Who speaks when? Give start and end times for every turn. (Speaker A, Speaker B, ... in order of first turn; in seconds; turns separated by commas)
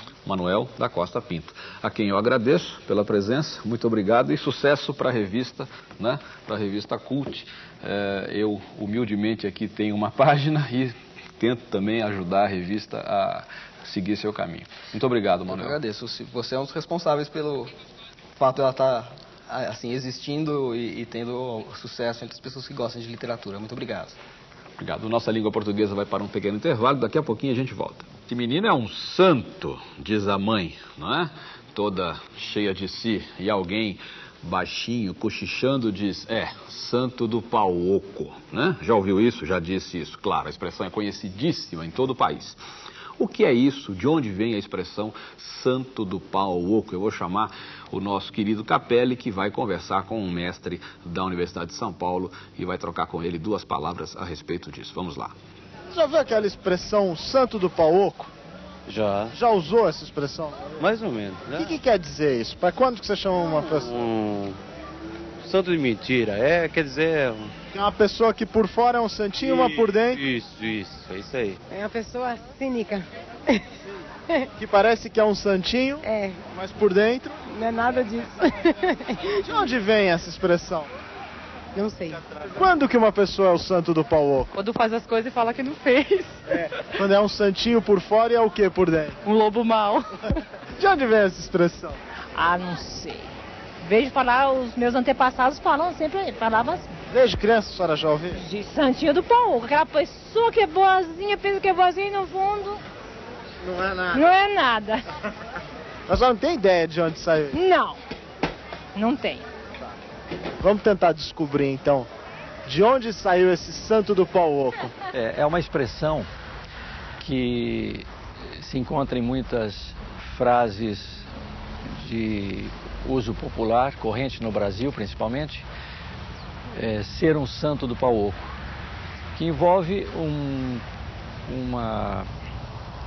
Speaker A: 0.2-15.8, Speaker B: 15.5-17.7, Speaker B: 18.4-24.2, Speaker A: 24.8-42.6, Speaker A: 43.2-55.4, Speaker C: 55.9-58.3, Speaker D: 58.9-59.4, Speaker C: 59.3-60.7, Speaker D: 60.8-61.7, Speaker C: 61.6-63.9, Speaker D: 63.7-64.6, Speaker D: 65.4-67.5, Speaker C: 67.7-70.2, Speaker D: 69.4-71.6, Speaker E: 71.7-73.7, Speaker C: 74.6-77.4, Speaker E: 76.0-76.4, Speaker E: 77.5-79.5, Speaker C: 79.5-80.9, Speaker E: 81.8-82.2, Speaker C: 82.5-84.5, Speaker E: 84.5-86.5, Speaker C: 87.0-89.2, Speaker E: 89.2-90.1, Speaker C: 90.8-92.0, Speaker F: 92.3-93.3, Speaker F: 93.8-96.9, Speaker C: 97.1-98.4, Speaker F: 98.3-102.8, Speaker C: 103.6-104.2, Speaker F: 104.1-105.0, Speaker C: 106.1-107.6, Speaker F: 107.5-108.0, Speaker F: 109.0-109.5, Speaker C: 110.6-112.1, Speaker C: 112.7-114.9, Speaker G: 115.1-116.3, Speaker G: 117.2-118.1, Speaker G: 118.6-121.3, Speaker G: 121.9-125.7, Speaker G: 126.7-128.5, Speaker G: 129.4-130.8, Speaker G: 131.5-132.3